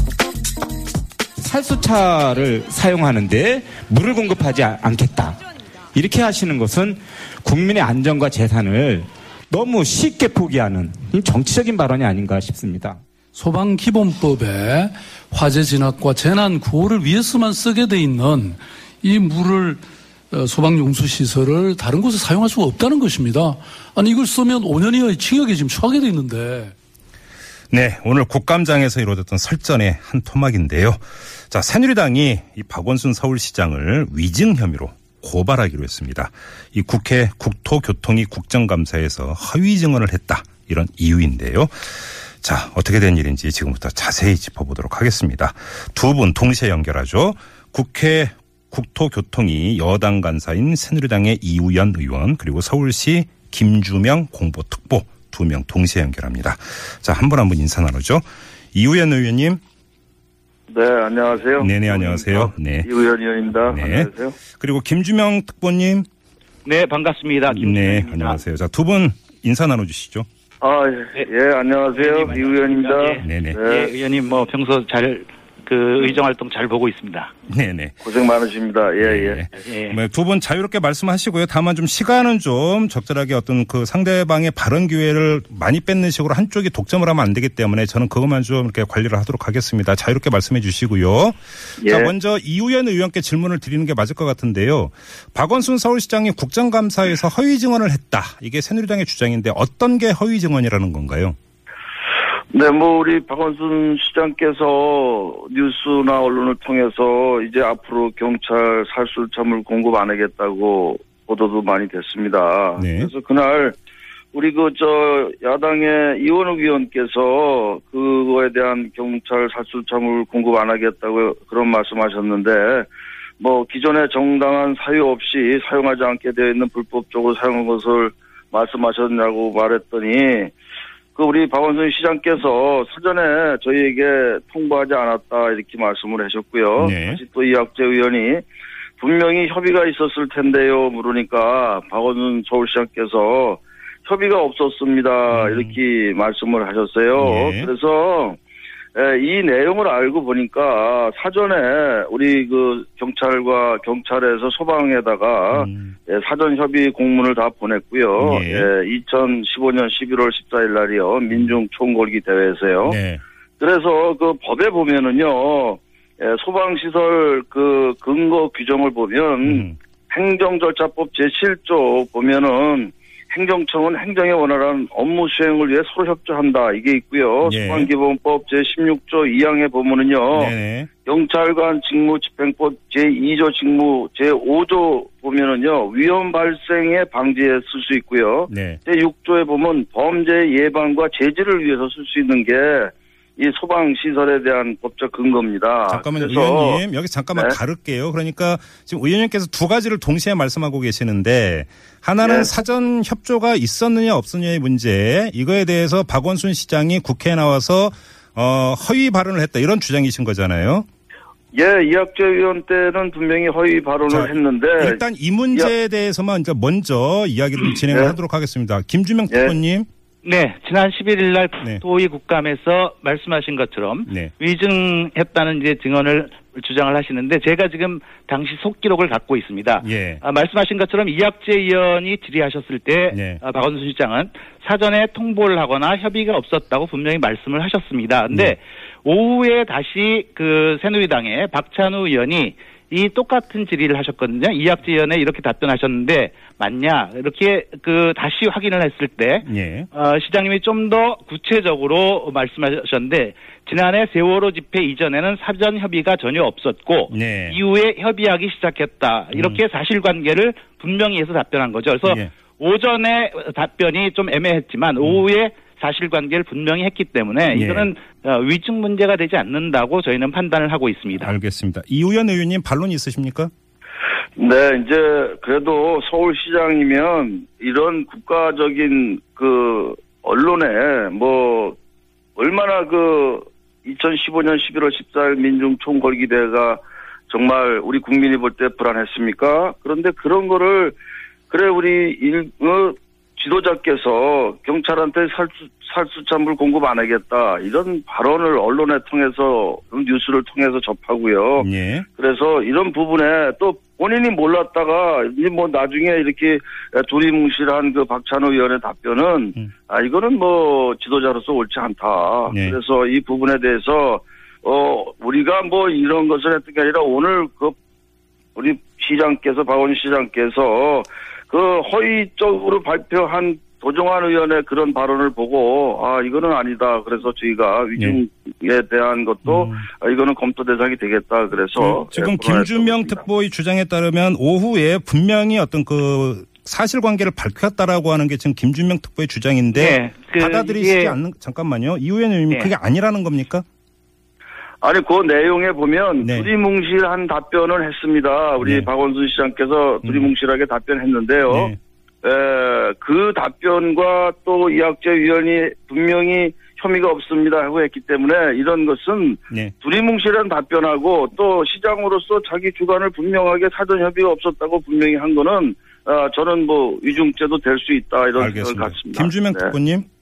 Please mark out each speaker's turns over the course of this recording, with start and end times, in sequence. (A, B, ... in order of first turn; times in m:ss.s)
0:01.4-0:05.4 A
0:05.9-0:13.0 A
0:13.3-0:26.7 B
0:27.7-0:41.8 C
0:42.4-0:58.2 C
0:58.7-0:59.6 C
1:00.7-1:04.4 D
1:01.6-1:02.9 C
1:03.7-1:06.0 C
1:06.6-1:08.4 E
1:07.5-1:10.3 C
1:10.6-1:13.9 D
1:12.0-1:17.3 E
1:13.2-1:13.6 C
1:17.5-1:18.0 C
1:18.0-1:19.4 D
1:19.0-1:41.4 C
1:19.6-1:20.0 E
1:31.8-1:32.1 D
1:42.5-1:53.8 D
1:52.8-1:53.1 C
1:54.3-2:02.9 D
2:03.4-2:10.5 D
2:11.1-2:18.4 D
2:16.8-2:17.2 C
2:19.0-2:28.4 D
2:25.3-2:25.7 C
2:27.2-2:27.7 C
2:28.9-2:43.0 D
2:35.5-2:35.9 C
2:38.2-2:38.7 C
2:42.8-2:43.2 C
2:43.6-3:00.5 D
2:49.4-2:49.8 C
2:57.4-2:57.9 C
3:00.3-3:00.9 C
3:01.0-3:16.8 D
3:08.5-3:08.8 C
3:15.9-3:30.8 C
3:22.2-3:22.5 D
3:31.5-3:35.0 D
3:34.1-3:39.9 C
3:37.9-3:38.1 D
3:40.2-4:31.3 E
3:44.1-3:44.3 C
3:49.8-3:50.2 C
3:53.1-3:53.4 C
4:09.4-4:09.9 C
4:17.1-4:17.6 C
4:19.3-4:19.6 C
4:27.5-4:27.9 C
4:31.2-4:33.5 C
4:34.4-4:41.8 D
4:42.4-4:50.9 D
4:51.5-5:17.8 D
5:01.6-5:02.0 C
5:12.5-5:12.8 C
5:18.6-5:33.2 D
5:29.4-5:29.8 C
5:31.8-5:43.6 C
5:39.7-5:41.2 E
5:44.8-6:09.7 D
5:46.2-5:46.5 C
5:48.6-5:48.9 C
5:51.5-5:51.8 C
6:08.4-6:10.0 C